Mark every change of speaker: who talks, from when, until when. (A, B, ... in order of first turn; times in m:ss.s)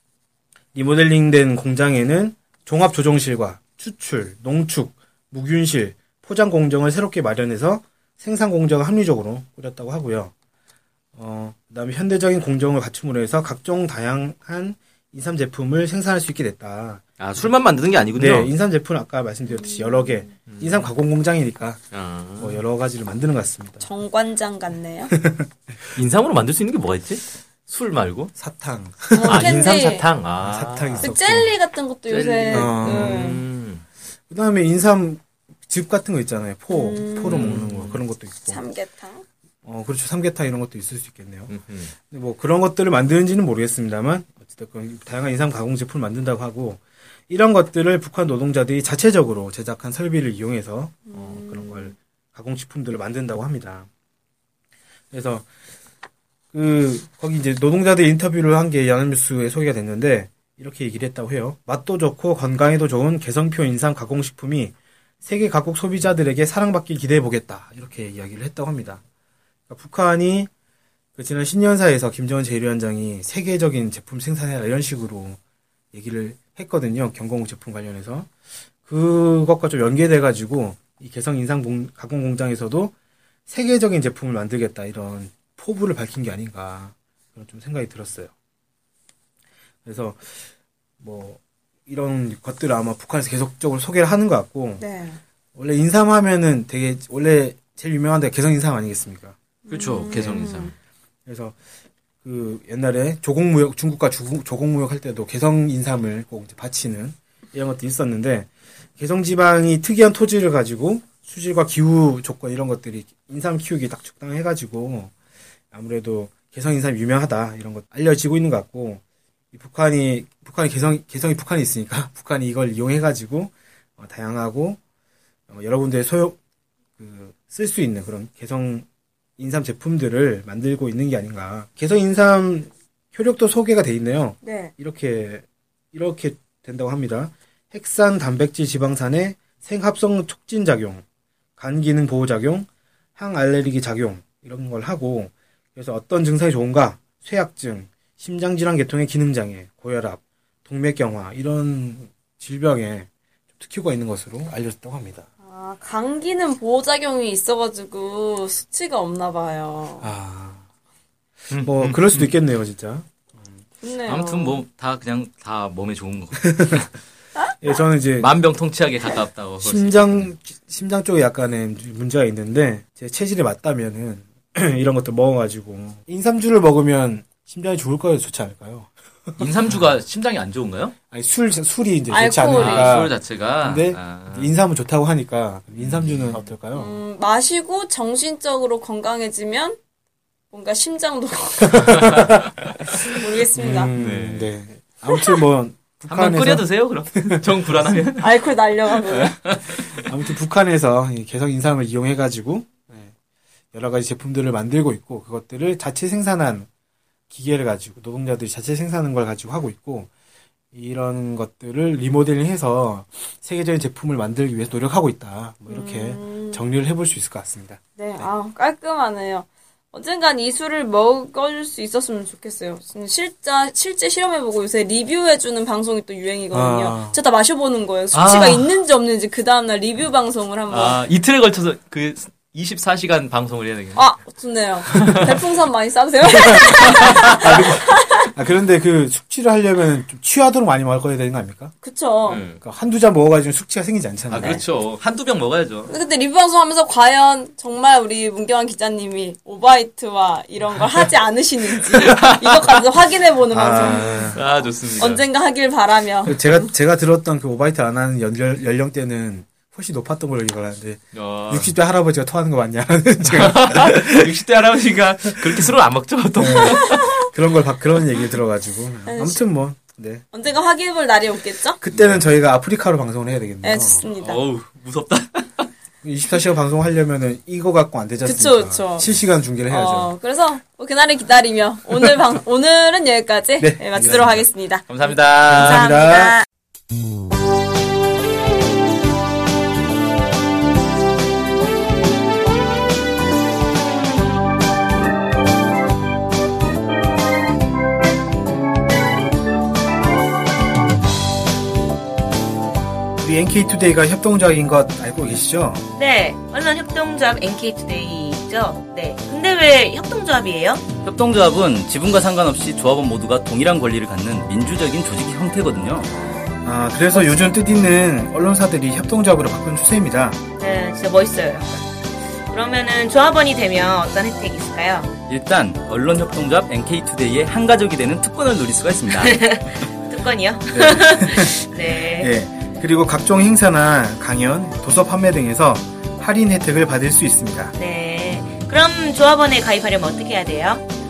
0:00.7-0:10.3 A
0:11.2-0:17.0 A
0:17.2-0:18.5 B
0:18.1-0:21.8 A
0:19.5-0:20.3 C
0:20.5-0:20.9 B
0:21.9-0:22.6 B
0:22.4-0:23.9 A
0:23.8-0:25.1 C
0:25.1-0:25.5 A
0:25.9-0:28.3 B
0:28.4-0:29.7 A
0:29.2-0:30.1 C
0:29.2-0:31.2 B
0:30.4-0:31.5 A
0:31.0-0:33.4 C
0:32.1-0:33.8 B
0:32.5-0:33.3 A
0:34.3-0:38.6 A
0:36.7-0:37.5 C
0:37.2-0:38.0 B
0:38.5-0:39.2 C
0:39.6-0:41.5 A
0:41.5-0:41.9 B
0:42.0-0:53.9 A
0:51.1-0:52.0 C
0:55.1-0:55.5 A
0:56.5-1:09.0 A
1:09.7-1:10.5 A
1:11.2-1:15.4 A
1:15.9-1:18.3 A
1:18.8-1:22.9 A
1:23.5-1:28.3 A
1:29.8-1:30.5 A
1:31.0-1:34.8 A
1:34.8-1:35.2 C
1:35.6-1:39.4 A
1:39.7-1:40.7 C
1:39.7-1:40.7 B
1:40.2-1:40.7 A
1:41.3-1:41.6 A
1:42.2-1:55.1 A
1:55.7-1:59.0 A
1:59.5-2:04.8 A
2:05.5-2:06.4 A
2:07.0-2:08.9 A
2:09.4-2:21.0 A
2:14.4-2:14.7 C
2:21.6-2:35.3 A
2:35.4-2:40.1 C
2:40.0-2:40.6 A
2:41.5-2:42.3 B
2:41.5-2:43.6 A
2:43.8-2:44.6 C
2:44.0-2:46.9 B
2:46.5-2:46.8 A
2:47.6-2:48.3 A
2:48.2-2:50.3 B
2:49.6-2:59.5 A
2:59.4-3:01.0 B
3:01.1-3:07.0 A
3:02.1-3:03.0 C
3:02.6-3:04.6 B
3:05.8-3:06.5 B
3:06.7-3:09.8 C
3:10.5-3:12.3 C
3:11.7-3:12.4 A
3:13.0-3:13.9 C
3:13.6-3:16.7 A
3:14.0-3:14.5 B
3:16.1-3:18.3 B
3:18.2-3:19.4 C
3:18.9-3:20.0 B
3:19.7-3:23.1 A
3:23.7-3:26.7 A
3:27.3-3:30.1 A
3:30.7-3:38.3 A
3:35.7-3:36.6 C
3:38.0-3:51.0 C
3:46.5-3:47.2 A
3:48.1-3:48.8 B
3:50.7-3:54.1 B
3:54.0-3:58.3 C
3:54.8-3:55.4 B
3:56.5-3:57.6 B
3:56.7-4:01.7 A
4:01.8-4:02.4 C
4:02.3-4:02.6 B
4:02.6-4:04.6 A
4:04.3-4:06.0 B
4:05.9-4:16.7 C
4:11.9-4:12.8 B
4:13.5-4:14.4 A
4:13.8-4:15.2 B
4:16.3-4:24.4 A
4:21.1-4:21.7 B
4:23.2-4:27.3 B
4:26.4-4:30.3 A
4:29.1-4:29.5 C
4:30.3-4:31.8 C
4:31.8-4:34.1 A
4:31.9-4:32.2 B
4:33.6-4:34.4 C
4:34.1-4:35.7 B
4:36.0-4:40.2 A
4:38.2-4:39.1 C
4:39.7-4:46.5 C
4:43.6-4:44.5 A
4:44.9-4:45.9 B
4:45.5-4:46.4 A
5:03.2-5:05.8 A
5:06.0-5:10.8 D
5:11.0-5:16.1 B
5:16.6-5:20.4 A
5:20.6-5:21.9 D
5:22.5-5:25.1 D
5:25.3-5:29.4 B
5:29.1-5:32.3 D
5:30.7-5:37.8 A
5:37.8-5:40.8 D